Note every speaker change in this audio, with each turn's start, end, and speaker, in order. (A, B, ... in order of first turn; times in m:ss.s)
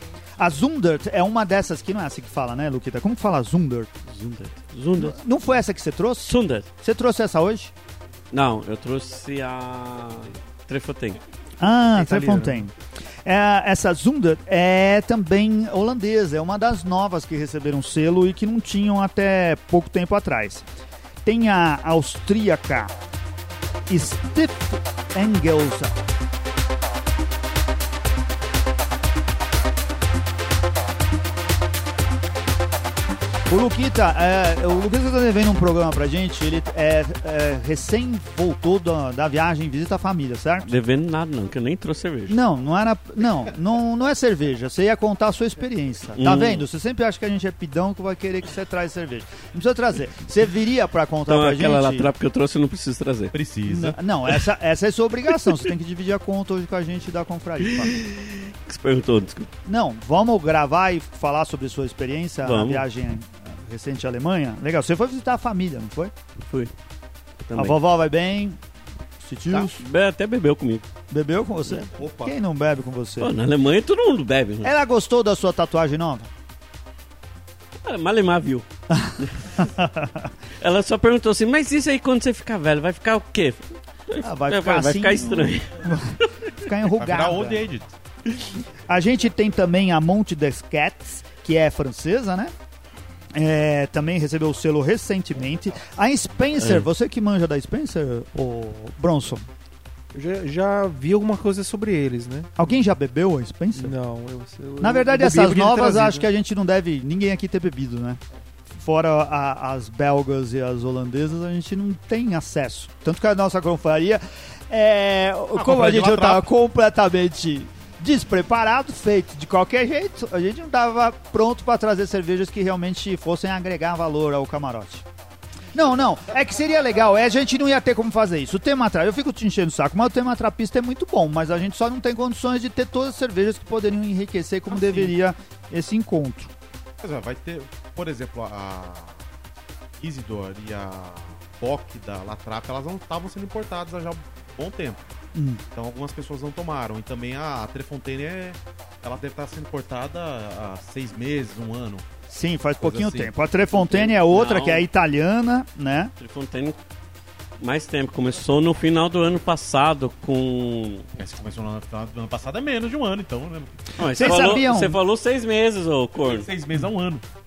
0:00.4-0:04.0 A
0:04.1-0:05.2 B
0:05.0-0:07.7 A
0:06.3-0:06.7 B
0:08.3-0:11.2 B
0:11.6-0:12.7 A
0:13.2-0:20.6 A
0:21.2-0:22.9 A
0:23.9-0:26.0 A
0:33.5-0:40.7 A
0:40.7-0:42.4 B
0:42.3-0:52.1 A
0:46.2-0:46.6 B
0:51.3-0:53.4 B
0:53.3-0:54.0 C
0:53.7-0:57.9 A
0:57.8-0:59.5 B
0:59.7-1:06.1 A
1:02.4-1:02.9 B
1:06.5-1:06.7 B
1:07.5-1:07.8 B
1:07.6-1:08.6 A
1:09.2-1:09.8 A
1:09.5-1:10.8 B
1:11.1-1:13.3 A
1:12.0-1:12.3 D
1:13.2-1:14.7 B
1:14.6-1:16.3 A
1:17.8-1:18.7 B
1:18.9-1:20.1 A
1:19.2-1:19.6 B
1:20.6-1:26.3 B
1:24.2-1:27.6 A
1:27.0-1:27.9 C
1:28.9-1:32.5 A
1:33.3-1:39.5 A
1:36.6-1:36.9 B
1:40.1-1:42.5 D
1:42.6-1:44.0 A
1:43.8-1:46.3 D
1:44.8-1:48.2 A
1:48.8-2:05.0 A
1:55.6-1:56.5 C
2:05.7-2:16.5 A
2:14.7-2:15.1 C
2:17.0-2:19.2 C
2:20.0-2:25.0 C
2:25.4-2:25.6 A
2:25.7-2:32.0 C
2:32.3-2:36.1 A
2:32.8-2:33.3 C
2:33.8-2:34.8 B
2:36.2-2:36.8 B
2:37.6-2:41.1 B
2:41.2-2:43.8 C
2:44.0-2:46.5 B
2:44.0-2:45.0 A
2:46.2-2:47.2 C